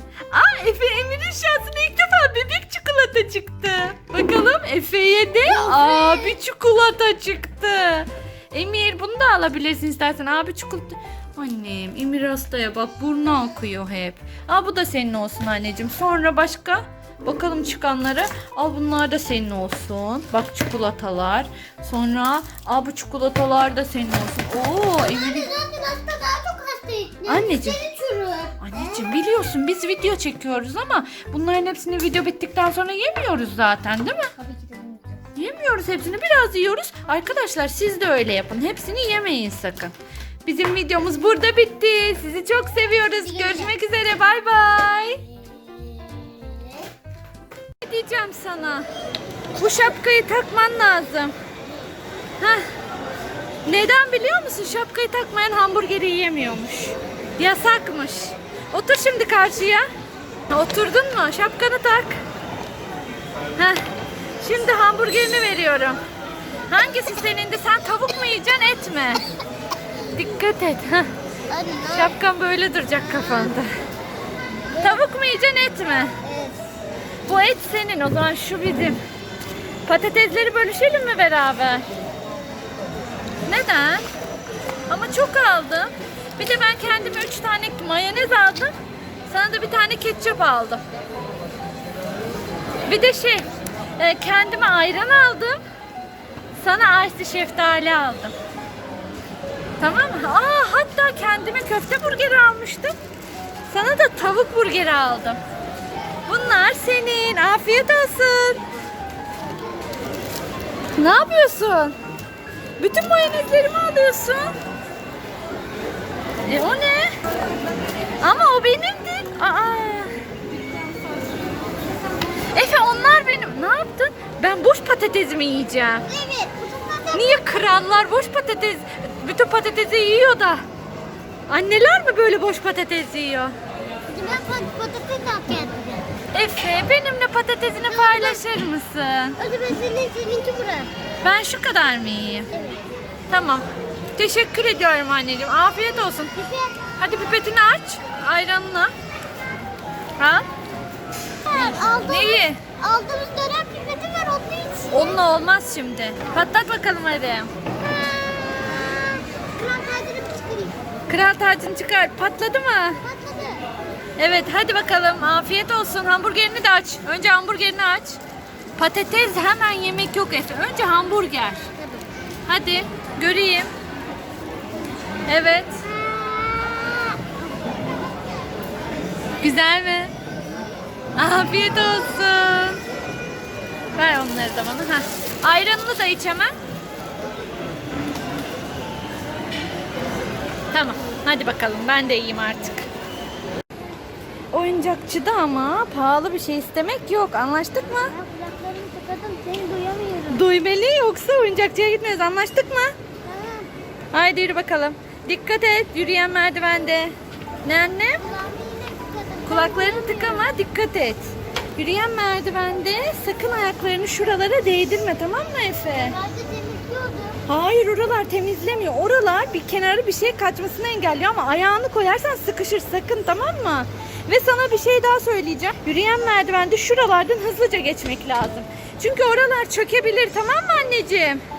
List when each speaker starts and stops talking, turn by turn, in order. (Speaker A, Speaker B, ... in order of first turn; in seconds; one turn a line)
Speaker A: 0.3-25.5
Speaker B: 5.4-6.4
Speaker B: 25.0-29.1
Speaker A: 27.2-27.8
Speaker A: 28.6-34.3
Speaker B: 34.3-35.2
Speaker A: 35.4-39.9
Speaker A: 40.4-45.2
Speaker B: 43.0-43.7
Speaker B: 45.3-46.8
Speaker A: 47.8-48.9
Speaker A: 49.5-51.3
Speaker A: 52.4-52.6
Speaker A: 53.6-59.9
Speaker A: 60.5-62.2
Speaker A: 63.6-63.8
Speaker A: 64.4-66.0
Speaker A: 66.7-69.2
Speaker A: 70.1-71.1
Speaker B: 71.5-72.2
Speaker A: 71.9-73.8
Speaker A: 74.8-76.2
Speaker B: 76.2-76.6
Speaker A: 77.2-79.0
Speaker A: 79.8-81.8
Speaker A: 83.5-84.0
Speaker A: 84.9-88.7
Speaker A: 89.3-90.8
Speaker A: 92.8-95.6
Speaker A: 96.6-98.3
Speaker A: 99.8-102.9
Speaker A: 103.7-105.4
Speaker A: 106.3-108.6
Speaker B: 109.5-110.0
Speaker A: 111.0-112.0
Speaker A: 112.8-114.5
Speaker A: 116.5-117.1
Speaker A: 118.2-120.2
Speaker A: 122.5-126.0
Speaker B: 126.0-127.6
Speaker A: 127.1-130.6
Speaker A: 131.5-133.5
Speaker B: 134.1-136.1
Speaker A: 136.3-139.4
Speaker B: 137.8-138.4
Speaker B: 139.4-140.9
Speaker A: 141.2-142.5
Speaker B: 142.5-142.8
Speaker A: 143.3-146.3
Speaker B: 146.3-147.0
Speaker A: 147.0-148.9
Speaker A: 150.2-150.5
Speaker B: 151.4-155.2
Speaker A: 151.6-152.6
Speaker A: 154.9-157.5
Speaker B: 157.7-160.8
Speaker A: 161.1-163.0
Speaker B: 163.0-163.7
Speaker A: 164.2-168.2
Speaker A: 168.8-171.7
Speaker B: 171.8-172.1
Speaker A: 172.5-173.7
Speaker A: 175.3-175.9
Speaker B: 175.8-178.7
Speaker A: 179.4-180.1
Speaker A: 181.2-182.8
Speaker A: 183.9-186.5
Speaker A: 190.7-192.9
Speaker A: 194.5-198.1
Speaker B: 198.0-200.4
Speaker A: 200.3-202.9
Speaker B: 203.2-203.7
Speaker A: 204.1-208.2
Speaker B: 208.2-210.6
Speaker A: 209.4-216.1
Speaker B: 215.8-217.4
Speaker A: 217.4-231.4